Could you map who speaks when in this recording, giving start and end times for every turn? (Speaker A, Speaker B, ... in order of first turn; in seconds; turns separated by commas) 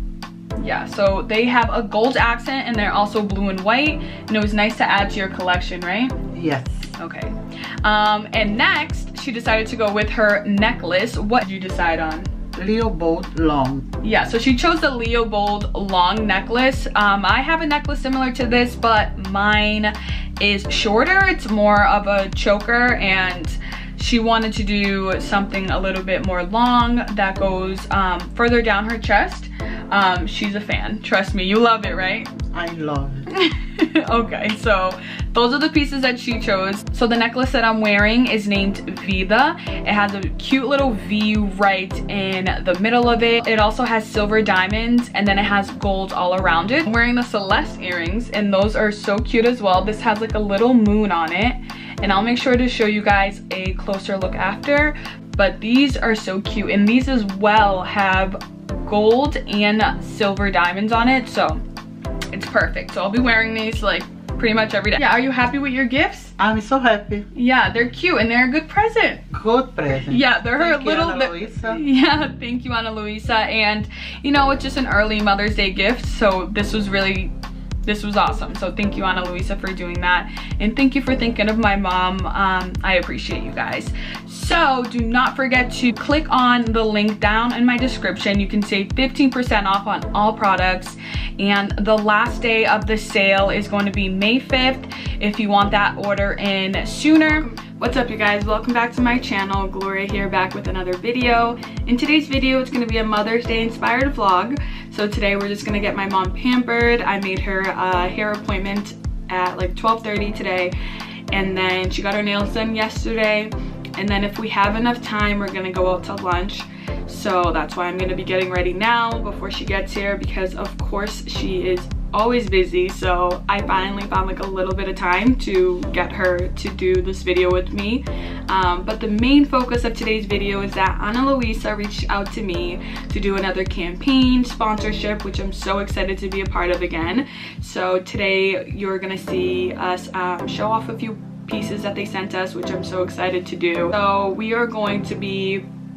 Speaker A: 0.6-6.2, Speaker B: 6.3-6.9, Speaker A: 7.0-12.3, Speaker B: 12.6-13.9, Speaker A: 14.0-32.3, Speaker B: 32.5-33.3, Speaker A: 33.3-61.6, Speaker A: 62.3-66.3, Speaker B: 66.4-67.3, Speaker A: 67.3-69.2, Speaker B: 69.3-71.8, Speaker A: 70.1-77.3, Speaker A: 77.9-110.7, Speaker A: 111.3-145.7